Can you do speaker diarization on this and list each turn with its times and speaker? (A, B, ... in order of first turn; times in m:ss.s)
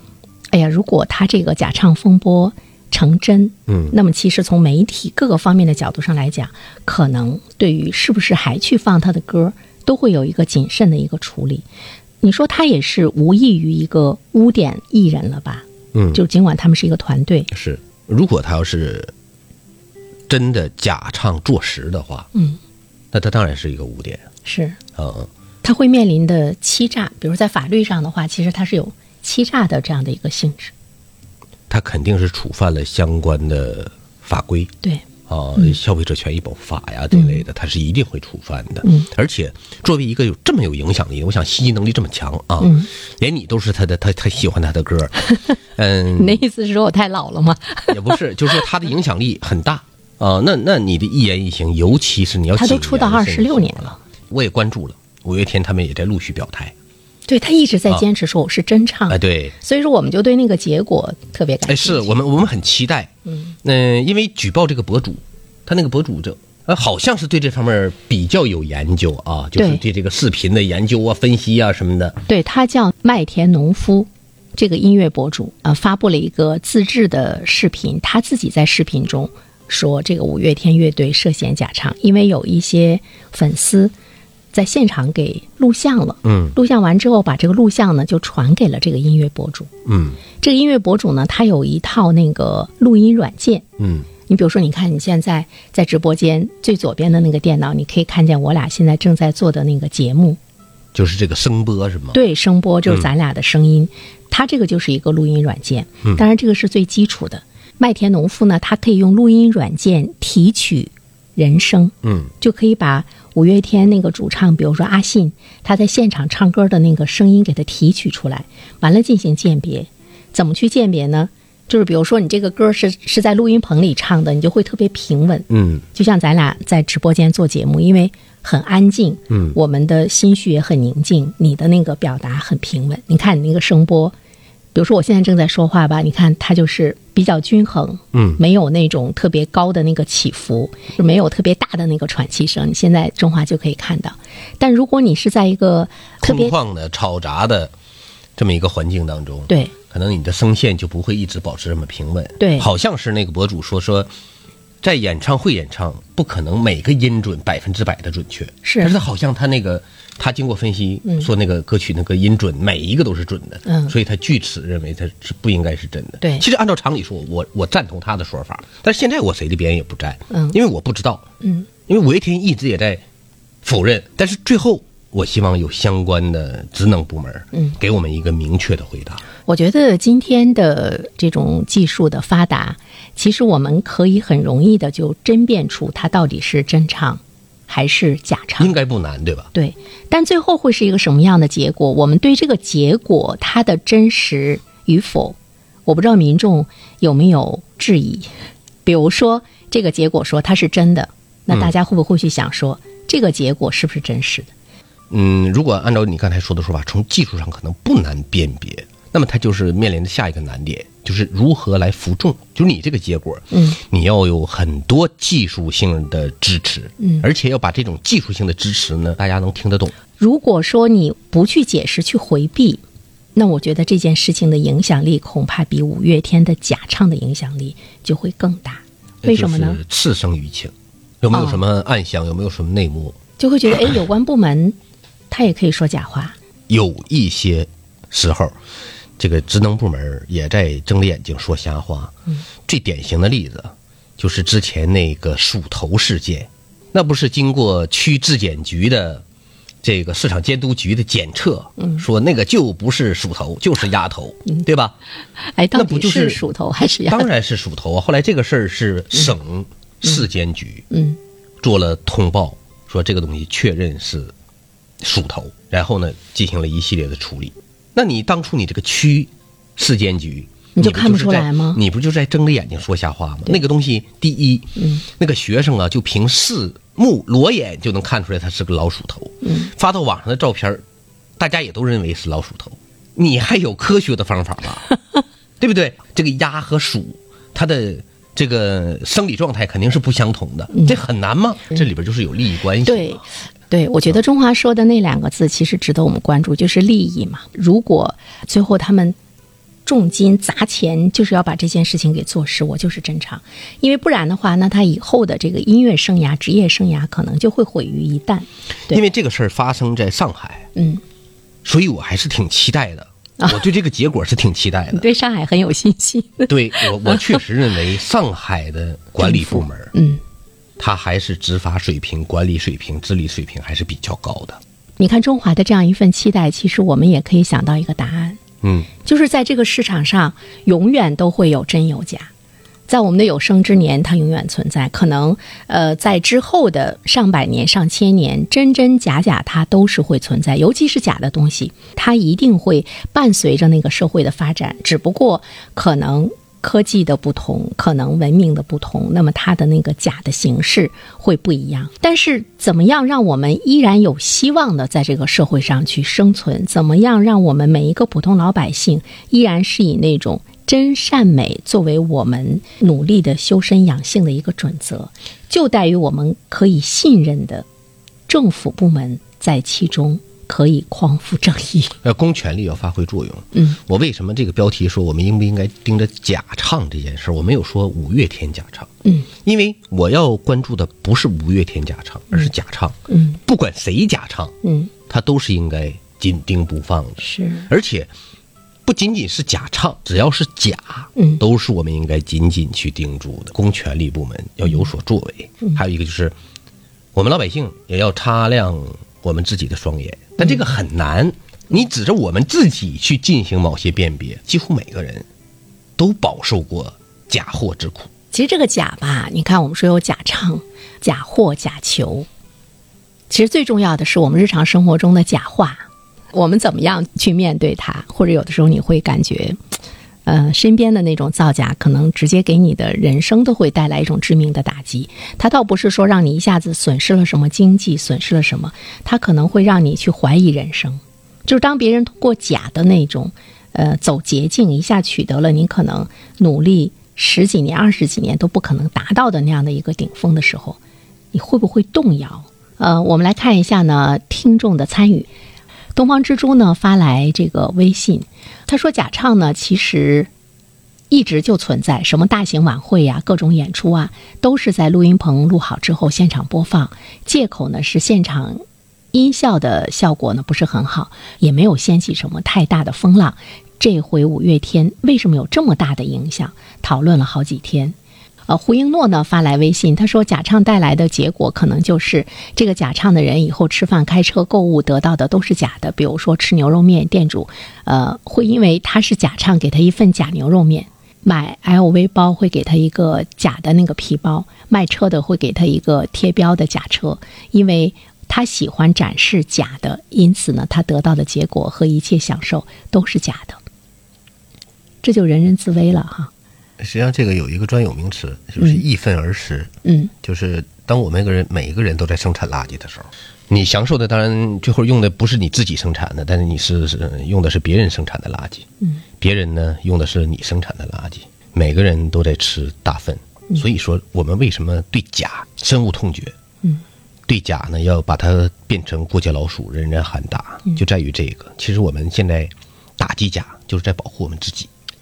0:00.5-0:11.7 A
0:03.7-0:04.0 B
0:12.2-0:17.5 A
0:15.9-0:16.2 B
0:17.5-0:19.1 B
0:20.3-0:22.3 B
0:22.3-0:22.6 A
0:23.1-0:24.2 B
0:24.4-0:24.8 A
0:25.0-0:25.3 B
0:25.6-0:30.7 A
0:31.7-0:34.7 B
0:35.3-0:46.4 B
0:37.1-0:37.4 A
0:38.8-0:39.1 A
0:42.6-0:42.9 A
0:46.2-0:48.5 A
0:47.9-0:56.7 B
0:52.5-0:54.0 A
0:57.3-1:02.1 A
0:59.1-0:59.6 B
1:01.7-1:03.1 B
1:03.6-1:12.2 B
1:09.6-1:09.8 A
1:12.3-1:23.9 A
1:24.5-1:29.7 A
1:26.2-1:26.6 B
1:29.9-1:30.2 B
1:30.4-1:33.7 A
1:33.8-1:34.1 B
1:34.3-1:40.4 A
1:40.9-1:42.2 B
1:42.1-2:14.2 A
1:52.0-1:52.3 B
2:05.5-2:05.8 B
2:09.3-2:09.6 B
2:14.7-2:26.6 A
2:18.1-2:18.4 B
2:26.2-2:27.7 B
2:28.4-2:34.1 B
2:29.5-2:29.7 A
2:32.4-2:32.7 A
2:34.8-2:51.2 B
2:38.6-2:38.9 A
2:43.7-2:44.0 A
2:46.2-2:46.5 A
2:50.3-2:50.6 A
2:51.4-2:51.7 A
2:51.9-2:53.0 B
2:53.6-2:59.2 B
2:59.4-3:08.8 A
3:08.6-3:09.5 B
3:09.5-3:18.3 A
3:18.8-3:24.5 A
3:25.1-3:40.0 B
3:33.5-3:33.8 A
3:37.0-3:37.3 A
3:40.2-3:42.8 A
3:43.4-3:49.8 A
3:49.2-3:53.2 B
3:51.3-3:51.6 A
3:53.4-3:54.8 A
3:55.3-3:56.4 A
3:56.7-3:58.6 B
3:59.2-4:02.1 B
4:02.7-4:09.2 B
4:09.8-4:15.0 B
4:15.5-4:17.3 A
4:15.7-4:16.4 B
4:17.1-4:20.9 B
4:20.9-4:21.2 A
4:21.6-4:24.3 B
4:25.0-4:40.8 B
4:30.8-4:31.8 A
4:34.8-4:35.0 A
4:39.4-4:39.7 A
4:41.4-4:44.9 B
4:45.6-4:53.2 B
4:50.7-4:51.0 A
4:52.8-4:59.2 A
4:59.8-5:09.0 A
5:08.9-5:10.7 B
5:10.8-5:11.0 A
5:11.6-5:15.1 B
5:13.4-5:13.6 A
5:14.9-5:17.4 A
5:16.5-5:19.9 B
5:19.2-5:20.2 A
5:20.8-5:24.6 B
5:25.0-5:28.4 A
5:28.6-5:28.9 B
5:29.0-5:32.3 A
5:32.9-6:07.7 A
6:08.3-6:12.0 A
6:12.0-6:18.9 B
6:19.4-6:24.5 B
6:23.1-6:23.4 A
6:24.6-6:24.9 A
6:25.1-6:28.1 B
6:27.2-6:27.7 A
6:28.9-6:36.3 B
6:31.2-6:31.4 A
6:37.1-6:45.3 B
6:46.0-6:48.1 B
6:48.3-6:52.3 A
6:53.3-6:59.6 A
7:00.2-7:20.8 A
7:21.3-7:25.3 A
7:25.9-7:30.3 A
7:31.1-7:38.6 A
7:39.1-7:48.0 A
7:48.5-8:13.6 A
8:15.0-8:16.3 A
8:16.8-8:19.7 B
8:19.8-8:20.1 A
8:20.2-8:28.7 B
8:29.2-8:36.3 B
8:37.3-8:44.7 B